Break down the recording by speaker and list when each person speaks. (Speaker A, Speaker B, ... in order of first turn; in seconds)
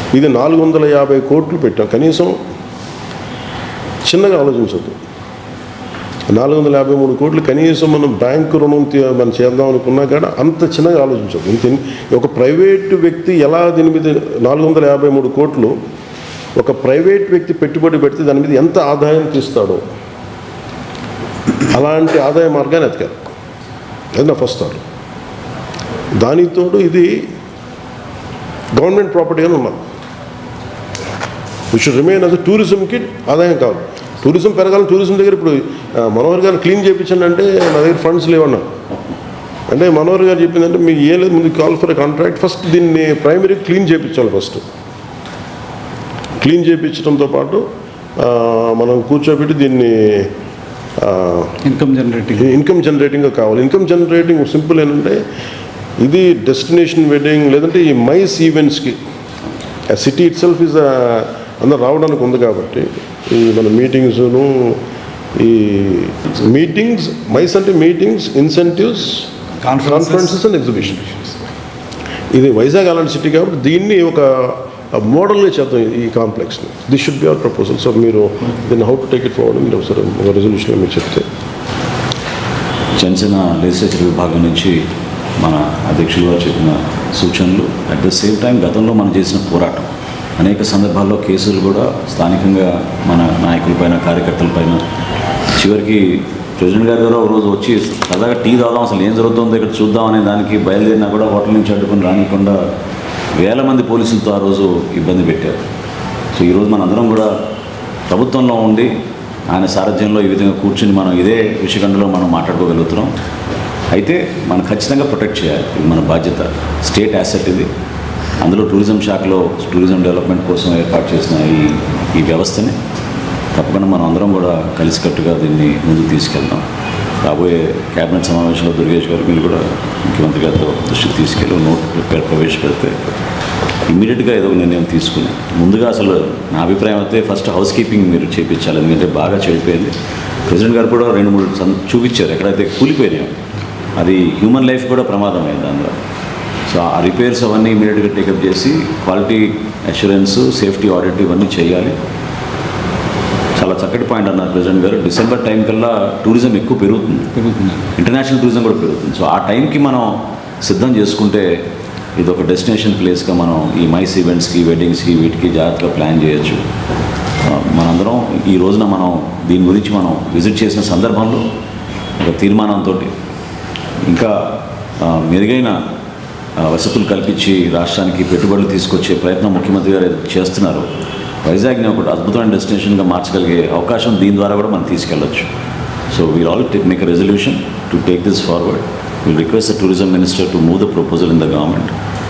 Speaker A: 0.1-2.4, 4.0-5.0, 6.3-15.8, 16.6-19.8, 21.7-23.3, 24.1-24.8, 26.2-27.3, 28.7-29.8, 31.7-38.7, 39.7-44.6, 46.4-47.7, 48.2-50.3, 51.0-51.6, 52.4-55.2, 56.0-59.0, 59.9-64.8, 65.3-71.4, 72.3-81.3
Speaker B: 51.6-52.5, 69.6-70.3, 157.5-157.8
Speaker C: 83.0-84.8, 85.4-94.8, 95.6-102.6, 103.4-105.6, 106.3-107.3, 108.1-108.9, 109.5-113.1, 113.9-117.7, 118.4-122.8, 123.5-126.6, 127.2-132.9, 133.9-139.9, 140.5-143.3, 144.0-145.9, 146.7-151.9, 153.6-161.5, 162.2-166.6, 167.4-171.5, 172.2-173.1, 174.1-175.8, 176.6-180.9, 181.4-185.5, 186.1-191.9